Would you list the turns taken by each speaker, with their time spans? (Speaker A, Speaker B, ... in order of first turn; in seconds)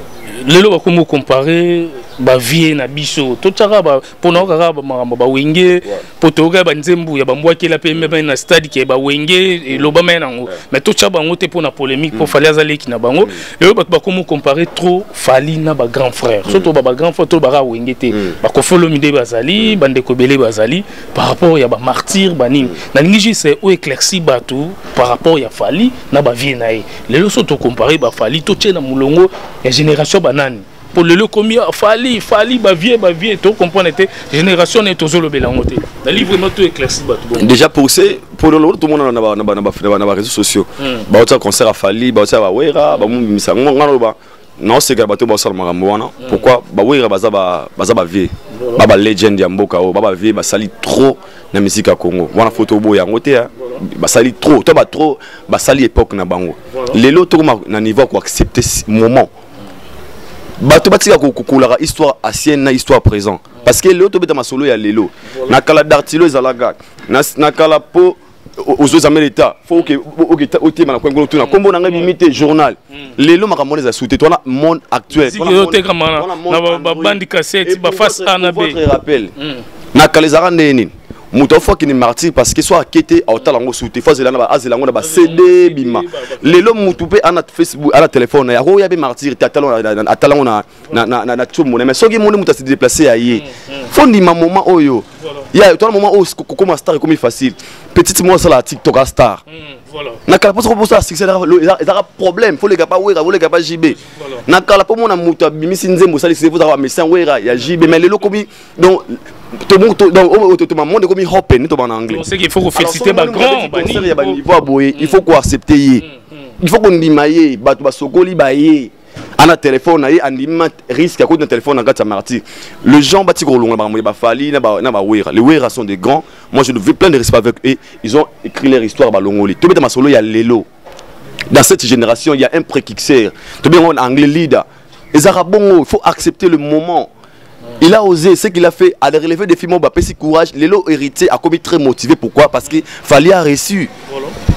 Speaker A: 0.3-37.5, 40.8-41.0, 46.2-46.5, 48.5-48.8, 56.7-57.0, 65.3-65.6, 71.4-72.1, 75.2-78.8, 79.4-79.6, 85.0-86.7, 93.3-93.9, 95.2-95.5, 99.5-100.2, 104.0-104.4, 107.5-108.0, 112.1-114.4, 116.0-116.4, 144.1-144.3
Speaker B: 37.4-59.3, 60.6-79.3, 79.9-99.4, 100.3-112.2, 112.7-116.0, 116.6-130.7, 131.5-137.1, 137.8-143.9